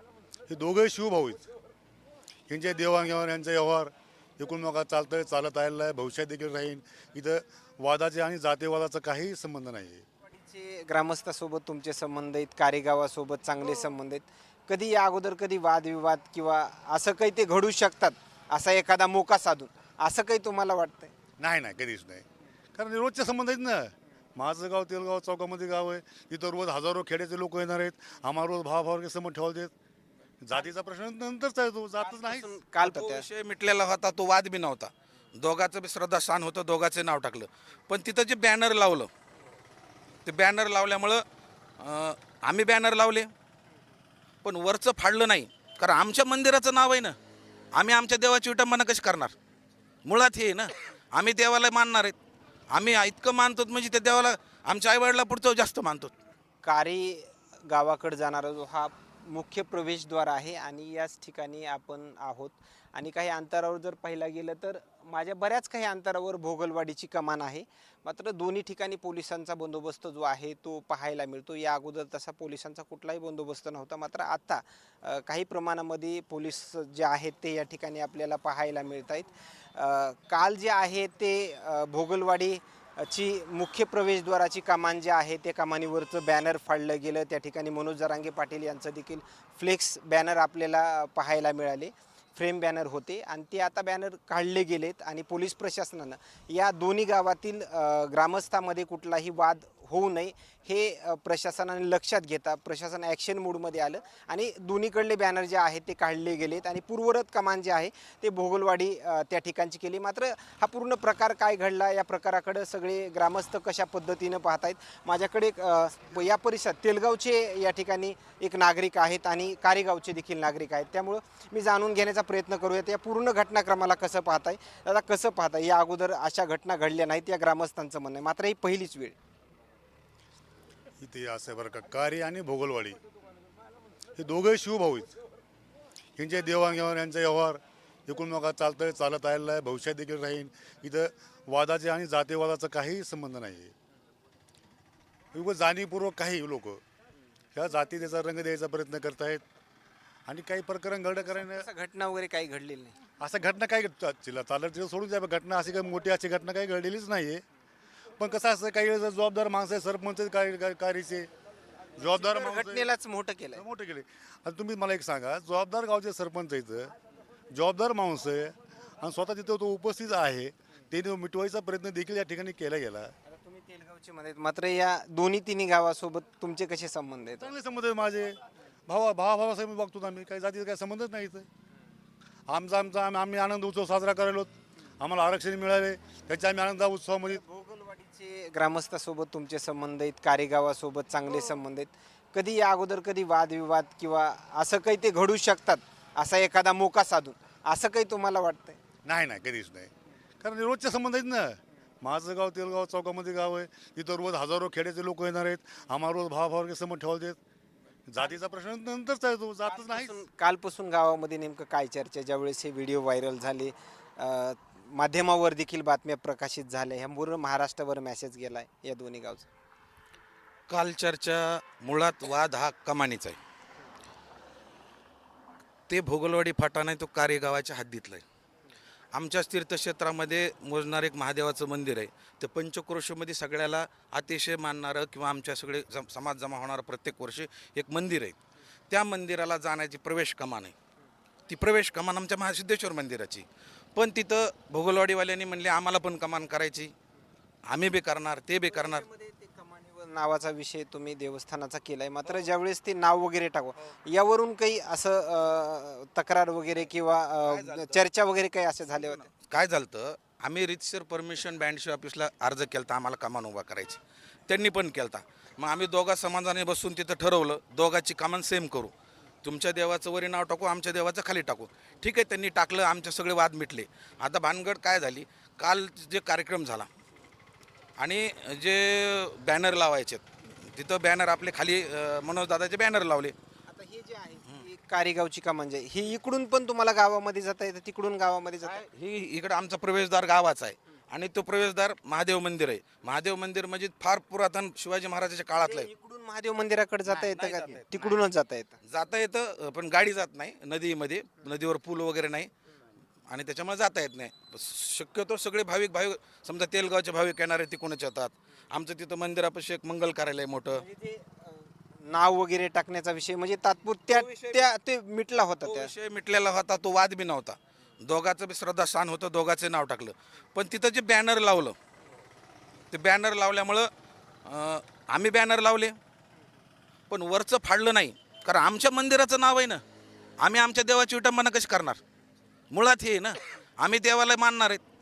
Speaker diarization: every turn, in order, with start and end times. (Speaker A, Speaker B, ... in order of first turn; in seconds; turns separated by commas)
Speaker A: 0.5-1.5, Speaker A: 2.5-10.1, Speaker B: 10.3-21.1, Speaker A: 21.4-29.7, Speaker A: 30.4-32.5, Speaker B: 32.0-33.3, Speaker C: 32.8-39.1, Speaker C: 40.2-41.2, Speaker C: 41.8-43.3, Speaker C: 44.4-47.1, Speaker C: 47.8-49.3, Speaker C: 50.0-52.1, Speaker C: 52.7-56.1, Speaker B: 56.6-129.2, Speaker A: 131.0-133.0, Speaker A: 134.2-135.2, Speaker A: 136.2-143.7, Speaker A: 145.3-146.8, Speaker A: 147.6-149.4, Speaker A: 150.3-151.7, Speaker B: 151.2-153.0, Speaker A: 153.2-157.4, Speaker A: 158.2-161.3, Speaker A: 162.0-162.8, Speaker B: 162.0-163.6, Speaker A: 163.6-166.9, Speaker A: 167.5-173.1, Speaker B: 173.3-177.5, Speaker A: 177.4-181.5, Speaker A: 182.5-187.4, Speaker B: 187.2-198.8, Speaker A: 199.1-207.4, Speaker A: 208.1-210.2, Speaker B: 209.7-219.5, Speaker C: 220.7-223.4, Speaker C: 225.9-228.2, Speaker C: 229.1-238.4, Speaker C: 238.9-240.7, Speaker C: 241.5-246.9, Speaker C: 247.7-249.0, Speaker B: 248.7-259.3, Speaker C: 257.4-258.0, Speaker C: 258.9-276.9, Speaker C: 278.0-283.3, Speaker B: 283.7-288.9, Speaker C: 288.6-295.9, Speaker B: 295.6-298.8, Speaker C: 297.1-298.2, Speaker C: 298.8-302.5, Speaker C: 303.3-310.8, Speaker B: 310.8-315.9, Speaker C: 314.1-314.7, Speaker C: 315.6-321.8, Speaker C: 322.9-323.9, Speaker C: 324.4-326.0, Speaker C: 327.1-329.8, Speaker C: 330.4-332.0, Speaker C: 332.7-334.8